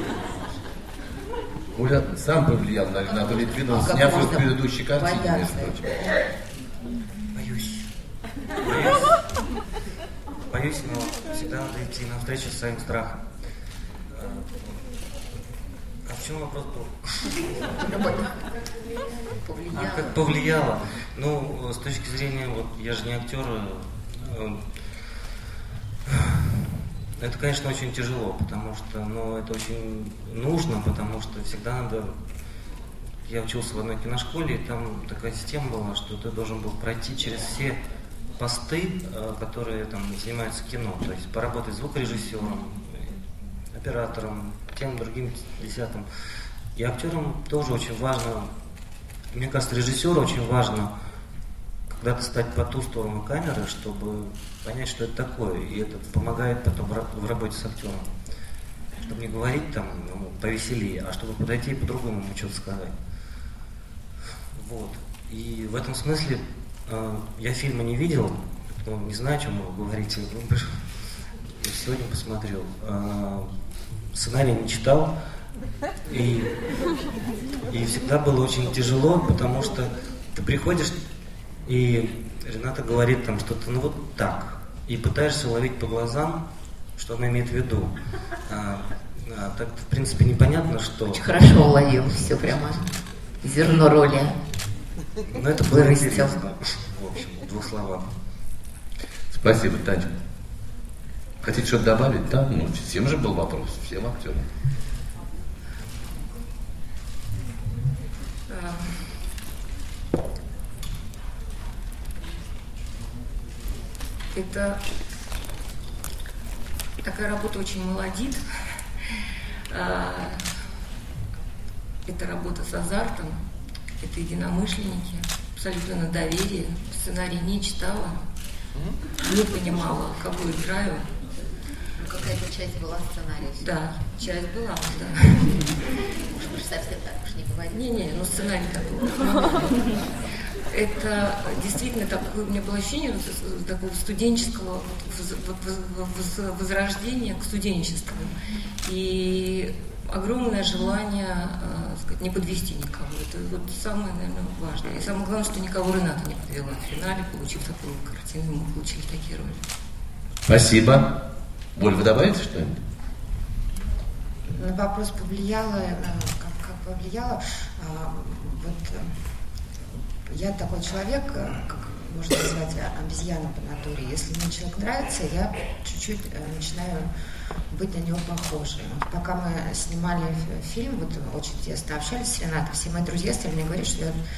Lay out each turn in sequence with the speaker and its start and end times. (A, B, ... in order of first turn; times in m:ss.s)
0:01.7-0:05.9 A
0:03.0-0:06.0 B
0:07.3-0:07.9 C
0:08.6-0:09.2 C
0:10.5-0:13.2 C
0:14.2-0:14.5 C
0:16.0-0:17.5 C
0:17.8-0:18.4 B
0:19.4-0:20.3 B
0:19.7-0:24.8 C
0:27.2-0:32.2 C
0:33.2-0:37.8 C
0:38.4-0:43.2 C
0:43.7-0:46.1 C
0:46.7-0:48.5 C
0:49.3-0:50.9 C
0:51.9-0:58.1 C
0:59.0-1:02.9 C
1:04.5-1:13.5 C
1:14.1-1:15.1 C
1:16.1-1:16.6 C
1:17.7-1:21.0 C
1:21.6-1:26.4 C
1:27.0-1:27.9 C
1:28.4-1:31.6 C
1:31.0-1:34.4 B
1:32.3-1:32.9 C
1:35.3-1:38.1 C
1:35.6-1:36.4 B
1:39.3-1:40.1 A
1:41.4-1:44.5 A
1:48.5-1:48.9 D
1:54.3-1:54.8 D
1:57.0-2:00.4 D
2:02.0-2:03.4 D
2:04.0-2:08.2 D
2:09.2-2:11.1 D
2:12.0-2:13.7 B
2:13.6-2:15.8 D
2:16.3-2:18.2 B
2:17.7-2:20.1 D
2:20.7-2:39.6 D
2:40.4-2:41.2 A
2:41.7-2:42.8 A
2:44.5-2:49.3 E
2:50.3-2:57.1 E
2:57.7-3:04.2 E